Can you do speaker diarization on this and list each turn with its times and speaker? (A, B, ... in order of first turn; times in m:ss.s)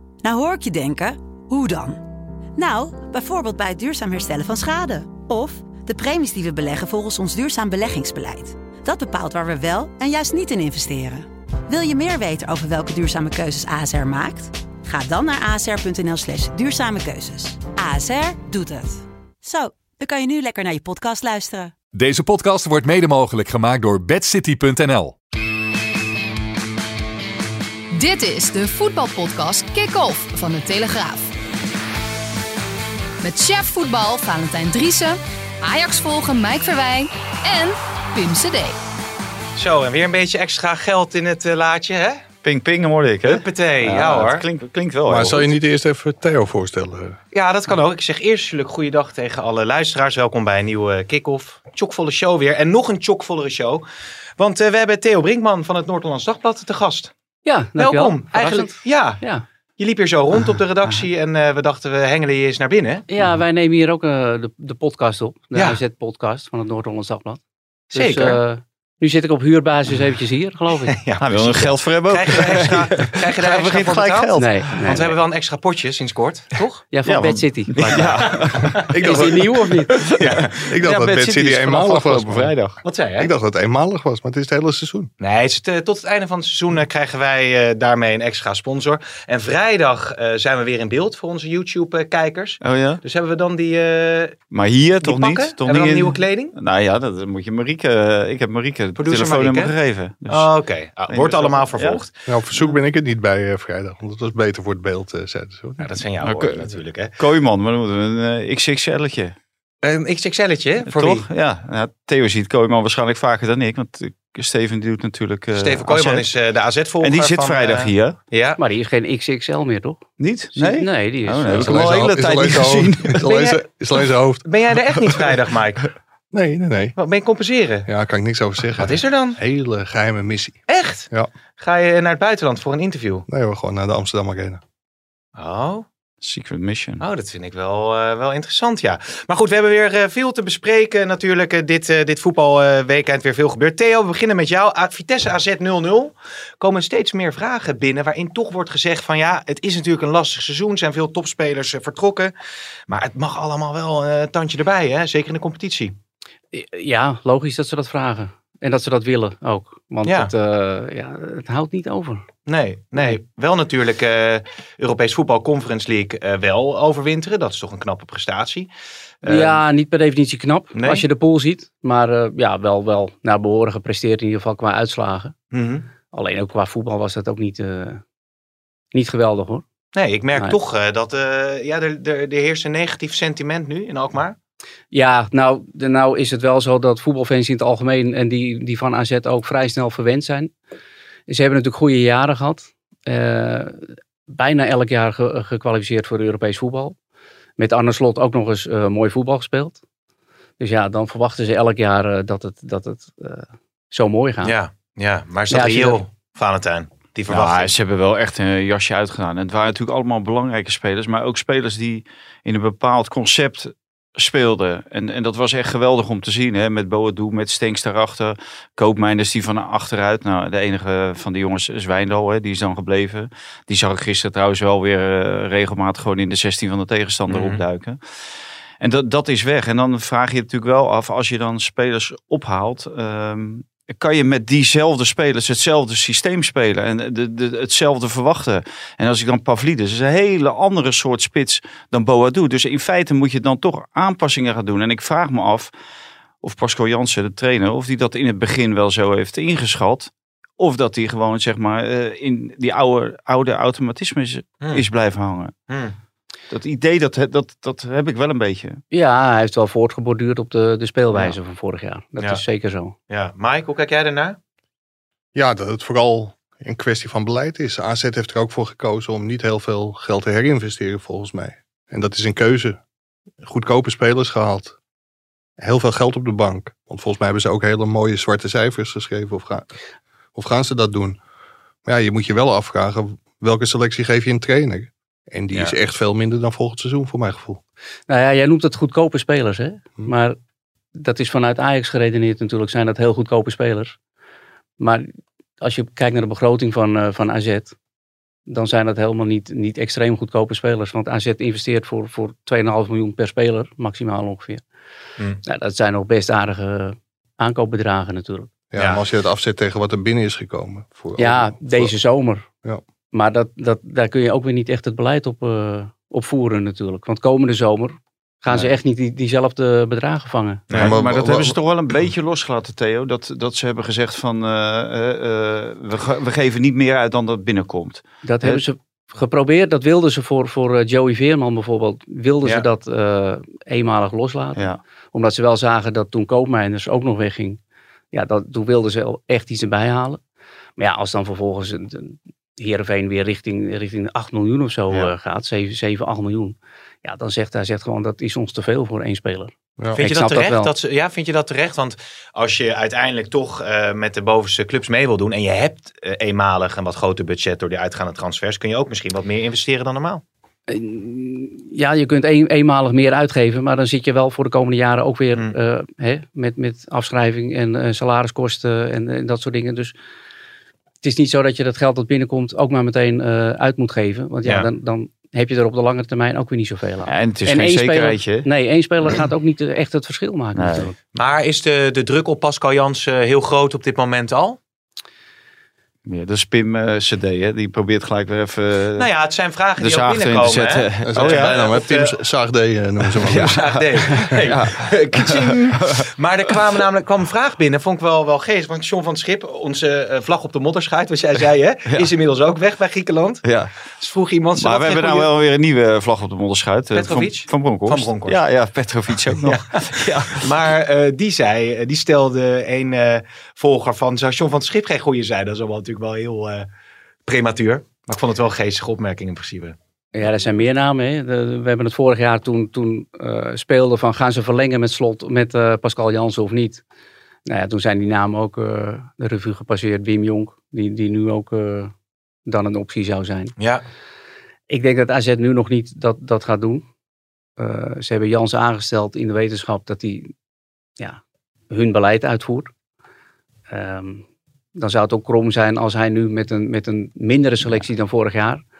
0:00.2-0:02.0 A
0:02.6-0:21.7 A
0:21.9-0:25.2 B
0:27.9-0:31.3 C
0:33.2-0:38.8 C
0:39.6-0:42.2 D
0:42.4-0:45.5 E
0:43.2-0:44.4 D
0:45.1-0:47.2 F
0:47.3-0:53.8 D
0:54.4-0:57.1 D
0:57.4-0:59.4 G
0:57.8-0:59.2 D
0:59.8-1:03.0 D
1:03.1-1:07.4 G
1:07.9-1:10.9 G
1:07.9-1:08.4 D
1:10.9-1:16.8 D
1:11.2-1:14.4 E
1:13.5-1:14.2 F
1:14.4-1:15.1 G
1:16.9-1:18.3 G
1:17.1-1:18.9 E
1:17.8-1:19.2 D
1:18.8-1:19.6 F
1:19.0-1:20.0 G
1:20.2-1:20.9 D
1:20.6-1:25.1 F
1:20.8-1:22.8 E
1:22.8-1:23.3 D
1:25.2-1:34.4 D
1:32.6-1:33.0 E
1:34.5-1:40.5 E
1:35.0-1:36.6 D
1:39.0-1:39.7 D
1:40.3-1:42.1 D
1:41.1-1:42.0 E
1:42.3-1:45.9 F
1:45.8-1:47.1 D
1:46.2-1:49.4 E
1:49.8-1:51.3 D
1:50.9-1:56.3 E
1:55.6-1:58.6 D
1:57.0-1:58.2 E
1:58.6-2:00.0 G
2:00.2-2:03.3 E
2:00.5-2:01.9 G
2:01.5-2:05.4 F
2:03.2-2:03.6 D
2:04.4-2:05.9 D
2:06.3-2:07.0 F
2:07.0-2:07.9 D
2:07.9-2:11.3 F
2:08.8-2:09.4 D
2:10.7-2:13.3 D
2:13.3-2:14.6 F
2:15.4-2:15.9 D
2:16.2-2:17.0 E
2:17.0-2:32.3 D
2:32.9-2:36.0 D
2:36.5-2:42.2 G
2:40.1-2:40.3 D
2:42.5-2:48.7 D
2:49.2-2:49.6 D
2:49.2-2:55.3 G
2:50.8-2:51.0 D
2:55.5-2:55.9 D
2:56.1-2:58.0 G
2:58.9-2:59.6 G
2:59.9-3:04.4 D
3:04.9-3:10.5 G
3:11.3-3:17.0 G
3:17.6-3:19.8 G
3:20.6-3:24.6 G
3:24.4-3:27.7 D
3:25.5-3:26.0 G
3:27.3-3:48.0 E
3:47.3-3:47.6 D
3:48.8-4:05.7 E
4:06.4-4:15.6 E
4:16.5-4:18.8 E
4:18.9-4:23.0 G
4:23.1-4:24.4 D
4:25.4-4:32.8 F
4:33.4-4:34.8 F
4:35.6-4:39.7 F
4:40.4-4:41.2 F
4:41.9-4:47.6 F
4:48.1-4:50.4 G
4:51.0-4:54.0 G
4:54.8-4:55.1 G
4:55.6-4:57.8 G
4:58.5-5:04.6 G
5:05.4-5:08.5 G
5:08.7-5:11.9 F
5:11.2-5:12.5 G
5:13.1-5:20.7 G
5:20.7-5:28.6 E
5:20.7-5:21.6 F
5:28.2-5:37.6 G
5:38.1-5:40.2 G
5:40.8-5:50.7 G
5:50.0-6:00.2 D
6:00.7-6:10.0 G
6:11.0-6:21.0 G
6:17.1-6:18.5 E
6:20.6-6:20.9 E
6:21.2-6:24.6 D
6:26.1-6:29.1 E
6:29.0-6:32.2 D
6:29.8-6:31.6 E
6:31.0-6:33.6 F
6:33.2-6:36.0 E
6:33.3-6:43.4 D
6:43.4-6:43.7 E
6:44.0-6:45.3 D
6:44.6-6:50.5 E
6:46.9-6:48.4 D
6:49.4-6:56.7 D
6:57.3-6:59.8 D
7:00.1-7:06.8 G
7:07.5-7:11.9 G
7:12.5-7:13.6 G
7:13.6-7:13.8 D
7:14.7-7:16.8 G
7:17.6-7:20.3 G
7:21.7-7:22.7 G
7:23.7-7:24.2 G
7:24.8-7:28.6 G